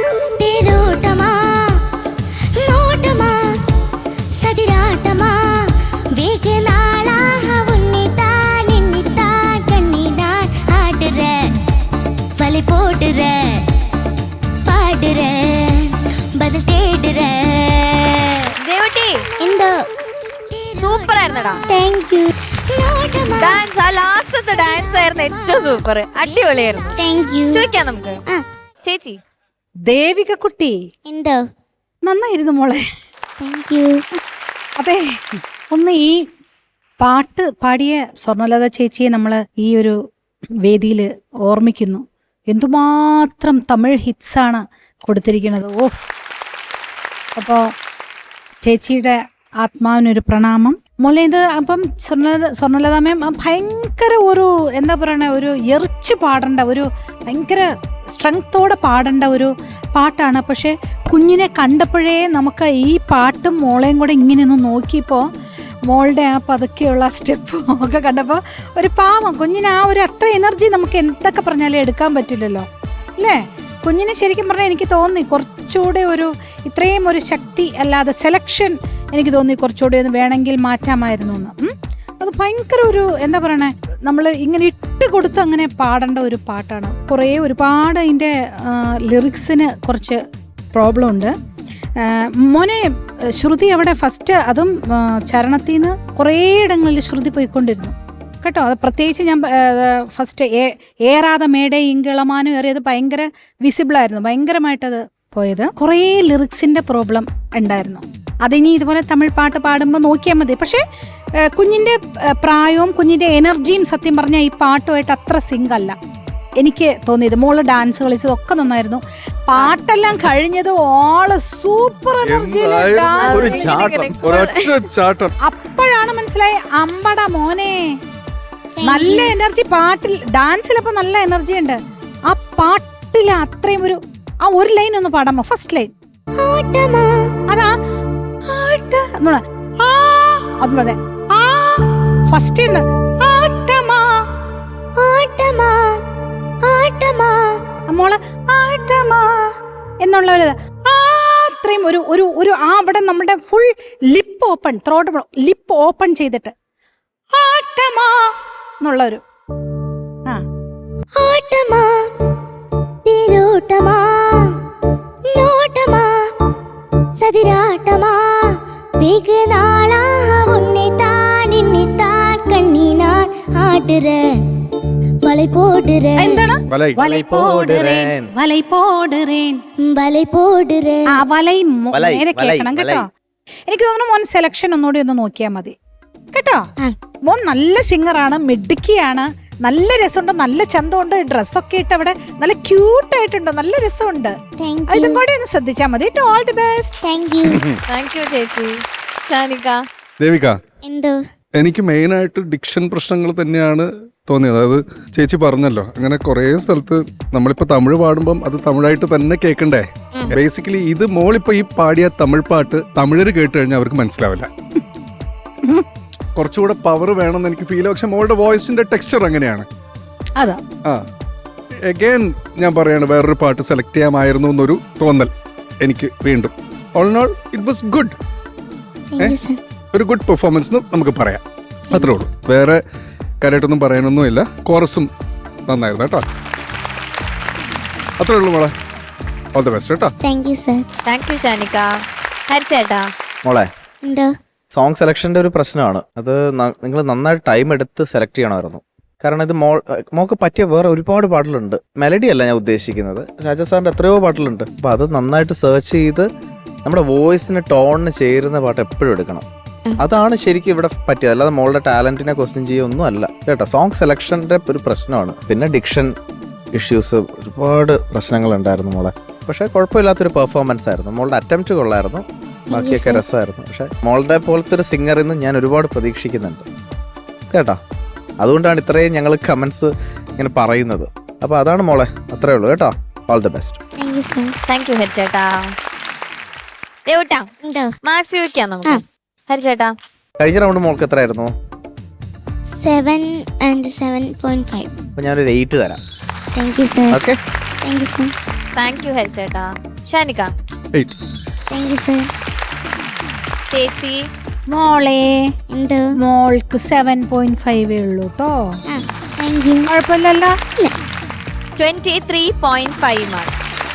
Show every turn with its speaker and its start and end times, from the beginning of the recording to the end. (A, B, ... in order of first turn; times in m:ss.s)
0:00.4-0:01.8 A
0:02.6-0:03.6 A
0:04.4-0:11.5 A
0:12.4-0:13.6 A
0:14.6-0:18.5 A
0:18.6-0:19.2 B
0:19.4-0:19.8 A
0:20.5-0:23.7 A
0:20.8-0:21.6 B
0:23.4-0:28.2 B
0:24.5-0:27.7 A
0:28.8-0:29.2 B
0:29.9-0:30.8 C
0:31.1-0:31.4 A
0:32.0-0:32.8 C
0:33.4-0:34.0 A
0:34.8-0:35.0 C
0:35.7-0:36.2 C
0:37.0-0:40.0 C
0:40.6-0:46.1 C
0:47.4-0:47.7 C
0:48.6-1:05.3 C
1:05.9-1:31.3 C
1:32.0-1:50.8 C
1:51.4-1:56.0 C
1:56.6-2:03.7 C
2:02.2-2:03.6 D
2:03.2-2:04.8 B
2:03.4-2:04.2 E
2:04.2-2:05.3 D
2:05.4-2:08.0 C
2:08.8-2:09.3 A
2:08.8-2:11.8 C
2:12.3-2:15.9 C
2:16.4-2:17.3 A
2:17.5-2:17.7 C
2:18.5-2:24.2 C
2:25.0-2:26.0 A
2:26.6-2:27.6 A
2:27.9-2:36.5 C
2:37.3-2:39.2 C
2:41.2-2:42.1 A
2:43.0-2:44.6 A
2:45.3-2:46.3 A
2:47.2-2:54.2 A
2:55.2-2:56.4 A
2:56.2-2:59.6 C
2:56.7-2:57.0 D
2:57.0-2:58.3 E
2:59.8-3:01.1 A
3:01.1-3:03.1 C
3:01.9-3:03.1 E
3:03.7-3:05.8 C
3:06.3-3:06.6 C
3:07.3-3:14.4 C
3:14.6-3:15.2 A
3:14.9-3:17.0 C
3:17.0-3:17.6 A
3:17.5-3:17.8 D
3:17.9-3:19.8 B
3:20.2-3:20.6 D
3:20.8-3:21.2 A
3:21.6-3:34.5 D
3:36.4-3:39.7 D
3:41.9-3:48.2 D
3:49.2-3:49.6 A
3:49.9-3:52.8 D
3:53.4-3:55.1 D
3:55.7-3:56.2 D
3:58.2-3:58.7 D
3:59.6-4:00.1 D
4:00.2-4:00.9 A
4:01.1-4:01.9 B
4:02.5-4:03.1 B
4:04.0-4:04.3 A
4:04.8-4:16.3 E
4:16.8-4:19.5 E
4:20.0-4:26.1 E
4:26.8-4:36.7 E
4:32.7-4:33.2 A
4:37.5-4:37.8 E
4:38.4-4:43.8 E
4:44.0-4:44.6 A
4:44.7-4:45.7 B
4:47.1-4:47.5 B
4:47.6-4:48.0 A
4:48.0-4:49.9 B
4:50.4-4:51.5 E
4:52.7-4:54.9 A
4:55.2-4:56.0 E
4:56.5-4:57.2 A
4:57.1-4:57.4 E
4:57.8-4:58.3 A
4:58.8-5:00.5 B
5:01.7-5:02.3 A
5:03.7-5:04.2 B
5:04.7-5:05.4 C
5:05.7-5:06.1 A
5:06.2-5:08.6 C
5:08.9-5:09.9 A
5:09.9-5:10.6 C
5:11.8-5:13.5 B